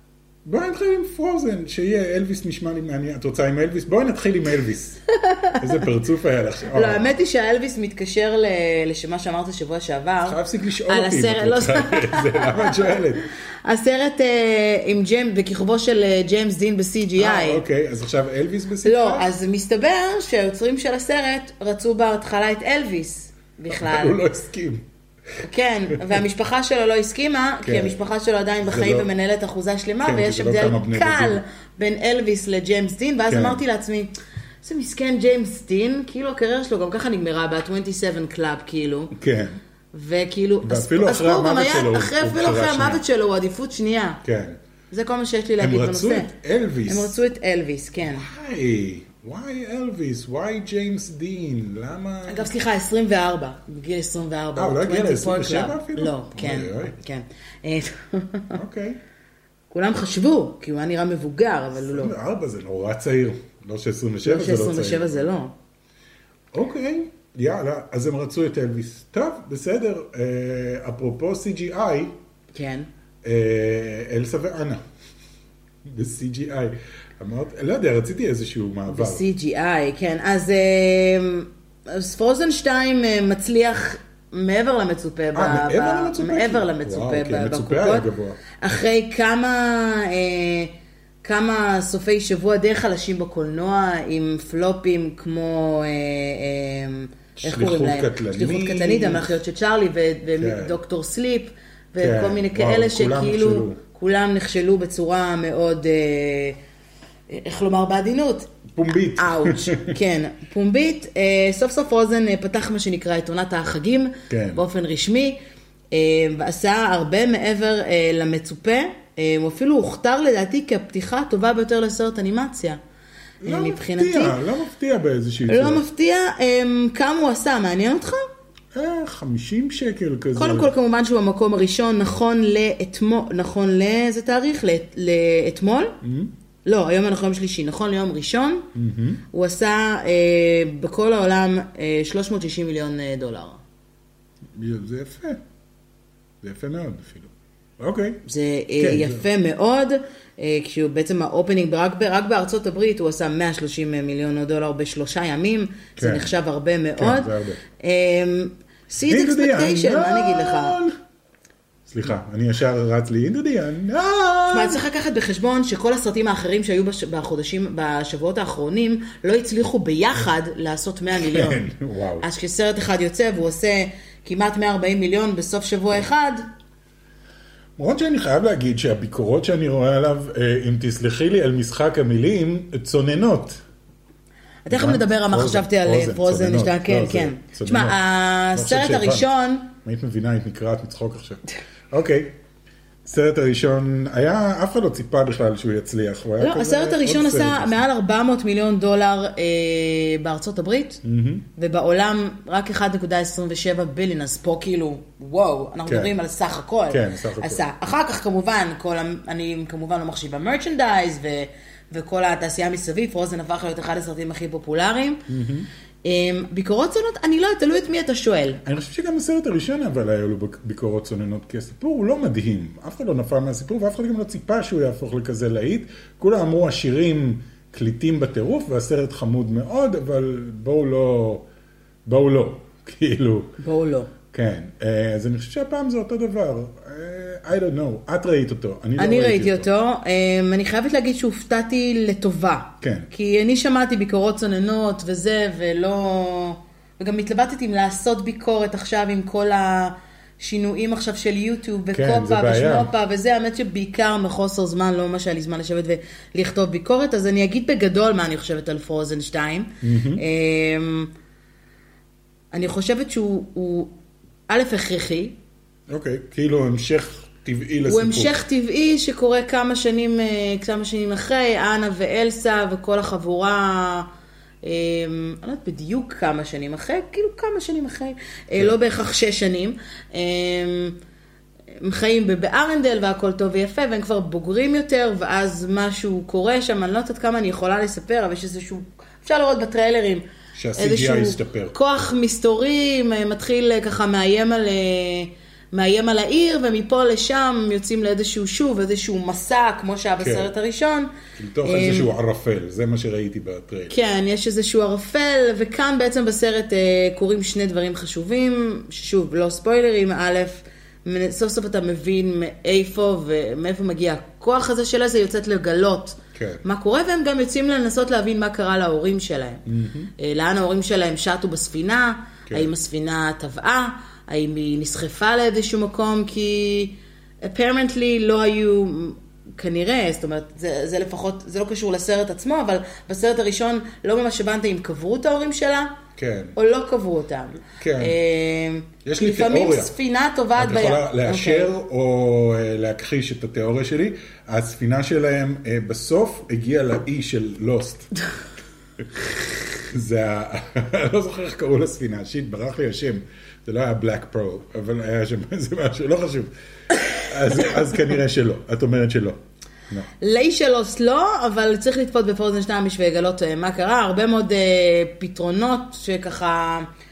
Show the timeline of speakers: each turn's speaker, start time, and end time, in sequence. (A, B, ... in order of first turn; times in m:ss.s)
0:00.4-0:05.0 A
0:05.1-0:05.8 B
0:05.6-0:07.1 A
0:06.7-0:13.0 B
0:10.2-0:13.2 A
0:13.6-0:17.6 B
0:17.2-0:19.3 A
0:18.8-0:24.2 B
0:23.7-0:24.8 A
0:25.4-0:34.1 B
0:27.6-0:28.0 A
0:28.6-0:29.1 A
0:30.0-0:31.4 A
0:33.3-0:33.6 A
0:34.6-0:39.1 B
0:39.1-0:39.6 A
0:39.9-0:44.2 B
0:40.6-0:43.0 A
0:44.2-0:44.6 A
0:44.9-0:46.3 B
0:45.6-0:47.1 A
0:46.9-0:48.3 B
0:48.0-0:52.5 A
0:52.3-0:58.6 B
0:54.6-0:56.9 A
0:58.5-0:59.0 A
0:59.7-1:02.1 B
1:01.8-1:05.2 A
1:04.2-1:05.5 B
1:06.5-1:12.1 A
1:12.5-1:12.9 B
1:13.2-1:14.8 A
1:15.8-1:19.2 A
1:18.9-1:30.7 B
1:25.3-1:28.4 A
1:31.2-1:46.6 B
1:37.4-1:39.3 A
1:40.4-1:40.8 A
1:42.0-1:43.8 A
1:47.3-1:48.6 B
1:48.7-1:50.0 A
1:49.1-1:55.4 B
1:54.3-1:54.6 A
1:55.9-2:02.8 B
2:03.4-2:04.4 B
2:03.4-2:05.8 A
2:05.5-2:08.2 B
2:08.7-2:10.7 A
2:10.3-2:16.0 B
2:16.0-2:16.3 A
2:16.6-2:18.7 B
2:18.7-2:19.2 A
2:19.3-2:23.6 B
2:24.5-2:25.4 A
2:26.4-2:28.2 A
2:28.2-2:40.8 B
2:28.8-2:29.2 A
2:36.0-2:36.3 A
2:37.0-2:37.6 A
2:39.1-2:40.9 A
2:41.8-2:44.8 A
2:44.5-2:51.6 B
2:51.2-2:52.2 A
2:52.2-2:56.4 B
2:57.8-3:03.6 A
3:04.6-3:09.7 B
3:04.7-3:08.0 A
3:08.5-3:12.3 A
3:13.0-3:17.8 A
3:16.4-3:21.0 B
3:21.0-3:21.4 A
3:21.6-3:35.2 B
3:26.9-3:27.6 A
3:35.3-3:35.7 A
3:36.0-3:38.6 B
3:38.6-3:51.4 A
3:52.1-3:53.6 A
3:53.6-3:54.1 B
3:54.3-3:59.7 A
3:59.0-4:21.1 B
4:02.8-4:03.1 A
4:11.9-4:12.9 A
4:19.8-4:20.2 A
4:22.5-4:23.9 B
4:24.5-4:25.4 B
4:25.9-4:28.4 A
4:27.9-4:34.1 B
4:34.6-4:41.0 B
4:41.8-5:01.1 B
4:50.6-4:51.7 A
5:00.2-5:00.5 A
5:01.4-5:03.9 A
5:01.6-5:02.1 B
5:03.9-5:19.6 B
5:16.3-5:16.6 A
5:19.7-5:20.1 A
5:20.2-5:36.0 B
5:36.2-5:36.6 A
5:36.6-5:41.8 B
5:37.7-5:38.1 A
5:39.0-5:39.9 A
5:40.6-5:48.1 A
5:49.0-6:00.1 A
6:00.2-6:06.9 B